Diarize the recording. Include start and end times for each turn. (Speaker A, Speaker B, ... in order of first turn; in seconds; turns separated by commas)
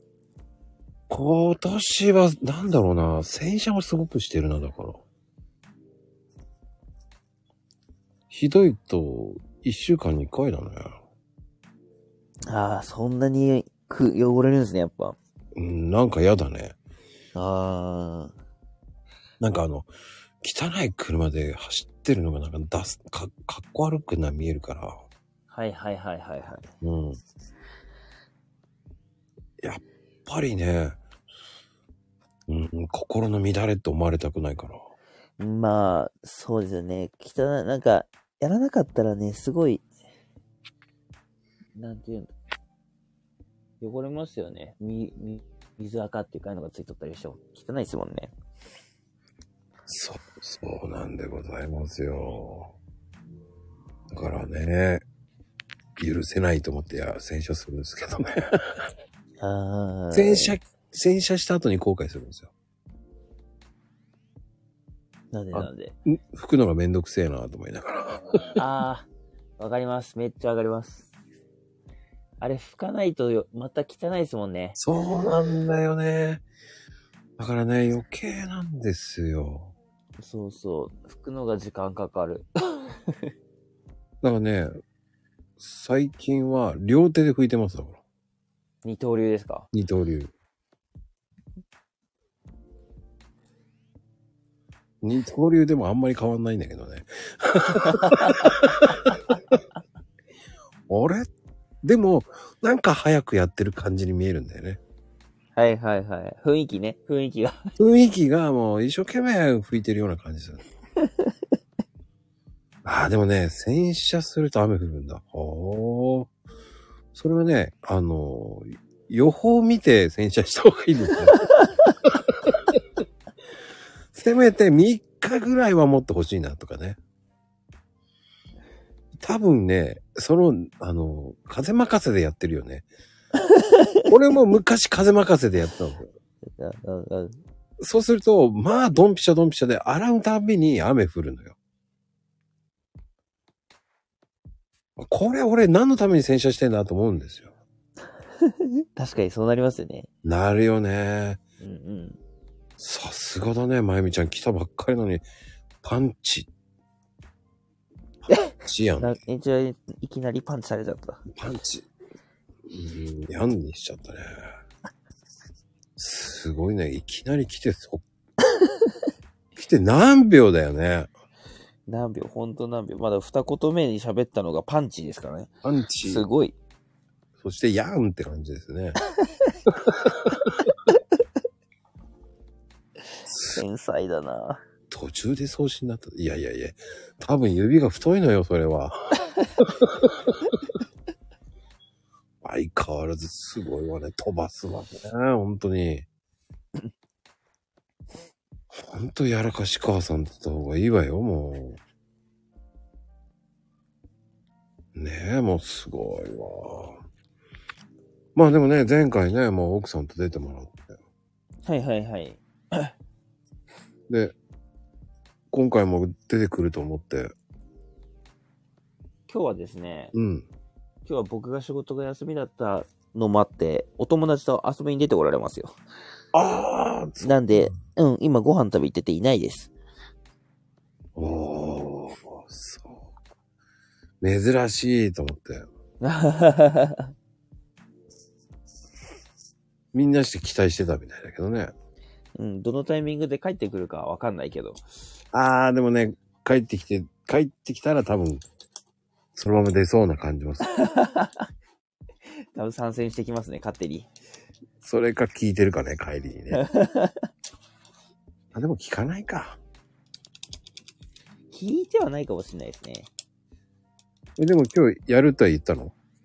Speaker A: 1.1-5.0, Speaker A: 8.3-11.0, Speaker B: 12.5-15.2, Speaker A: 15.5-16.7, Speaker B: 17.3-18.3, Speaker A: 19.4-19.9, Speaker A: 20.4-25.0, Speaker B: 25.5-26.7, Speaker A: 26.8-27.2, Speaker A: 29.6-31.0, Speaker A: 32.5-34.8, Speaker B: 35.4-39.9, Speaker B: 41.8-42.3, Speaker B: 43.8-48.3, Speaker A: 49.9-52.7, Speaker A: 54.1-55.0, Speaker A: 56.0-58.9, Speaker B: 59.4-60.5, Speaker A: 60.1-62.5, Speaker B: 65.3-65.9, Speaker A: 65.5-68.6, Speaker B: 68.5-69.1, Speaker B: 69.6-71.1, Speaker B: 72.4-74.8, Speaker A: 74.8-76.4, Speaker A: 77.4-79.7, Speaker B: 80.2-83.3, Speaker A: 84.2-84.7, Speaker A: 85.6-88.0, Speaker B: 88.8-89.7, Speaker A: 89.7-90.3, Speaker A: 95.0-99.2, Speaker B: 97.7-98.5, Speaker A: 100.9-101.3, Speaker A: 101.8-104.8, Speaker B: 105.5-107.7, Speaker A: 107.8-110.6, Speaker A: 112.8-116.3, Speaker A: 117.1-121.4, Speaker A: 122.1-122.8, Speaker A: 124.1-127.0, Speaker A: 129.2-132.8, Speaker B: 133.4-133.9, Speaker A: 134.1-136.1, Speaker B: 136.5-137.4, Speaker A: 137.8-141.5, Speaker A: 145.0-147.5, Speaker B: 148.4-150.1, Speaker A: 150.2-151.4, Speaker B: 151.6-152.2, Speaker A: 152.8-155.2, Speaker A: 155.8-156.5, Speaker B: 158.3-161.2, Speaker A: 158.4-159.1, Speaker A: 161.3-161.8, Speaker A: 162.7-164.5, Speaker A: 166.0-168.0, Speaker A: 169.6-171.1, Speaker B: 171.9-175.5, Speaker A: 175.6-176.2, Speaker B: 176.0-176.6, Speaker A: 177.4-179.0, Speaker A: 179.7-180.6, Speaker A: 183.3-183.6, Speaker B: 183.5-184.6, Speaker A: 184.9-189.1, Speaker A: 189.6-190.3, Speaker A: 192.4-196.1, Speaker A: 198.7-201.8, Speaker A: 204.9-207.0, Speaker A: 208.3-211.0, Speaker B: 211.6-212.9, Speaker A: 214.1-214.3, Speaker A: 215.5-217.3, Speaker B: 219.3-220.1, Speaker A: 220.1-220.4, Speaker B: 221.1-225.8, Speaker A: 226.3-227.8, Speaker B: 227.2-229.7, Speaker A: 231.2-233.1, Speaker A: 234.2-235.7, Speaker B: 236.0-237.1, Speaker A: 239.9-241.7, Speaker B: 242.3-244.8, Speaker A: 245.3-248.4, Speaker A: 249.3-250.7, Speaker B: 250.7-251.5, Speaker B: 252.5-254.1, Speaker A: 254.8-256.6, Speaker B: 256.5-257.3, Speaker A: 258.5-259.6, Speaker B: 261.5-263.1, Speaker A: 264.4-265.9